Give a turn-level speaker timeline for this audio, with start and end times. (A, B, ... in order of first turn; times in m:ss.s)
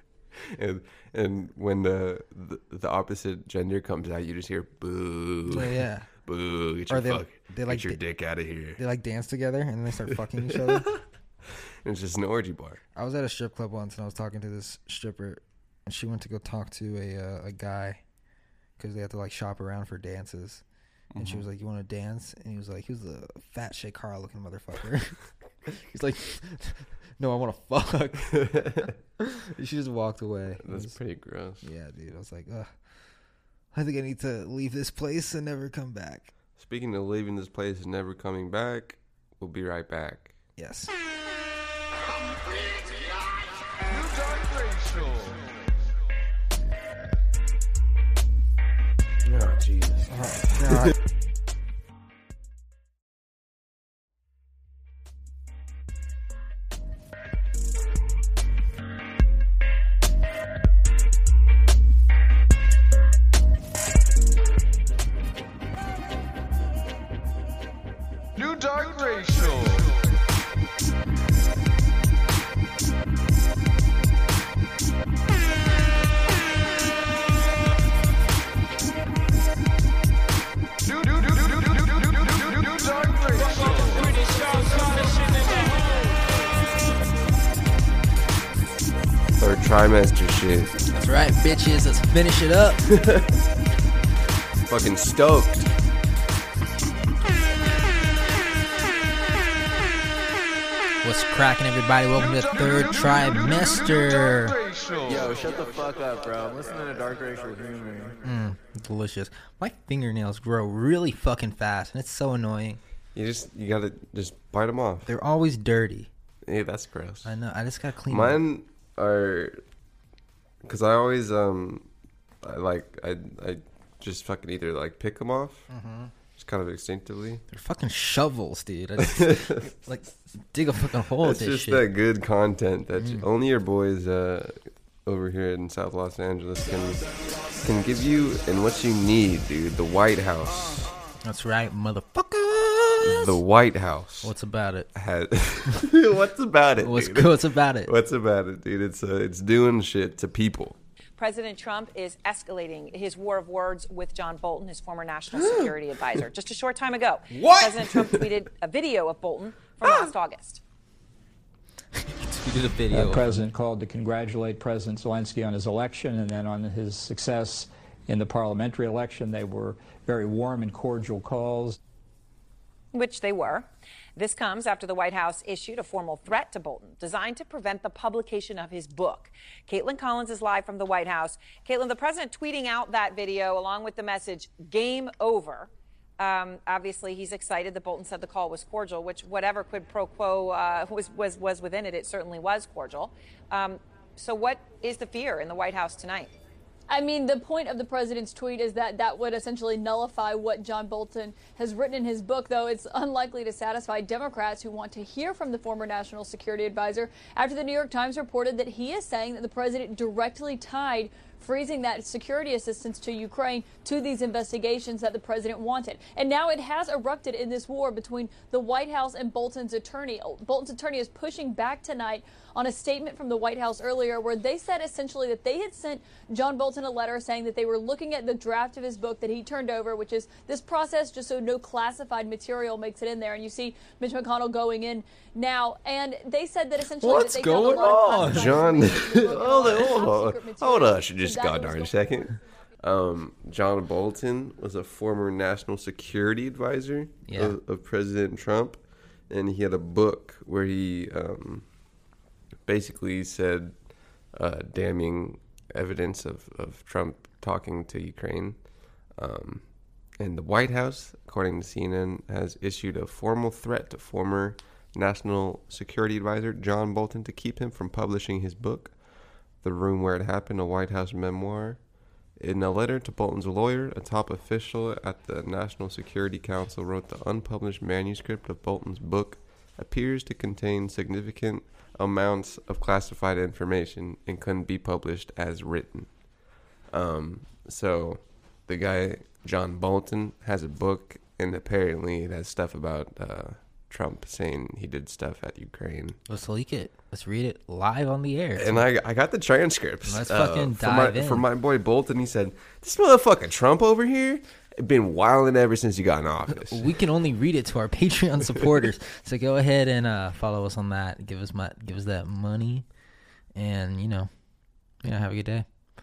0:00.4-0:08.8 A
0:05.5-0:06.1 B
0:06.9-0:08.0 B
0:08.8-0:10.9 B
0:10.1-0:12.8 A
0:13.0-0:18.0 B
0:18.8-0:20.6 B
0:21.1-0:21.5 A
0:21.2-0:28.6 B
0:28.3-0:28.9 A
0:29.2-0:31.0 B
0:30.6-0:31.7 A
0:31.6-0:32.7 B
0:33.7-0:36.3 B
0:36.6-0:40.4 A
0:40.6-0:40.9 B
0:43.9-0:45.5 C
0:49.2-0:50.8 A
0:50.1-0:50.9 B
1:08.4-1:10.1 C
1:21.0-1:25.5 C
1:29.4-1:30.8 A
1:30.9-1:32.9 B
1:32.9-1:33.3 A
1:34.7-1:35.7 A
1:41.0-1:44.6 B
1:44.6-1:45.1 C
1:45.1-1:48.2 D
1:48.2-1:52.8 B
1:53.1-1:55.1 A
1:55.1-1:56.1 B
1:56.4-1:57.4 A
1:57.2-1:58.4 B
1:58.1-1:59.6 A
2:00.6-2:01.9 A
2:02.4-2:05.7 A
2:05.7-2:06.1 B
2:06.4-2:07.4 A
2:07.5-2:11.9 B
2:09.0-2:09.7 A
2:11.2-2:17.0 A
2:13.0-2:13.3 B
2:17.6-2:20.9 A
2:21.2-2:23.4 B
2:23.0-2:24.3 A
2:24.2-2:24.9 B
2:25.0-2:30.8 A
2:26.8-2:27.9 B
2:31.2-2:40.6 E
2:42.0-2:43.4 B
2:42.9-2:51.8 F
2:52.9-3:16.3 E
3:16.9-4:02.1 G
3:57.0-3:58.8 B
3:58.2-4:11.7 A
4:07.3-4:07.6 B
4:12.7-4:13.8 A
4:14.3-4:18.6 A
4:19.2-4:19.7 A
4:20.2-4:29.0 A
4:29.6-4:31.8 A
4:32.4-4:46.1 A
4:46.9-4:56.2 A
4:56.3-4:58.9 B
4:58.6-5:06.9 A
5:00.1-5:01.5 B
5:06.5-5:12.9 B
5:13.6-5:14.3 B
5:15.0-5:15.7 B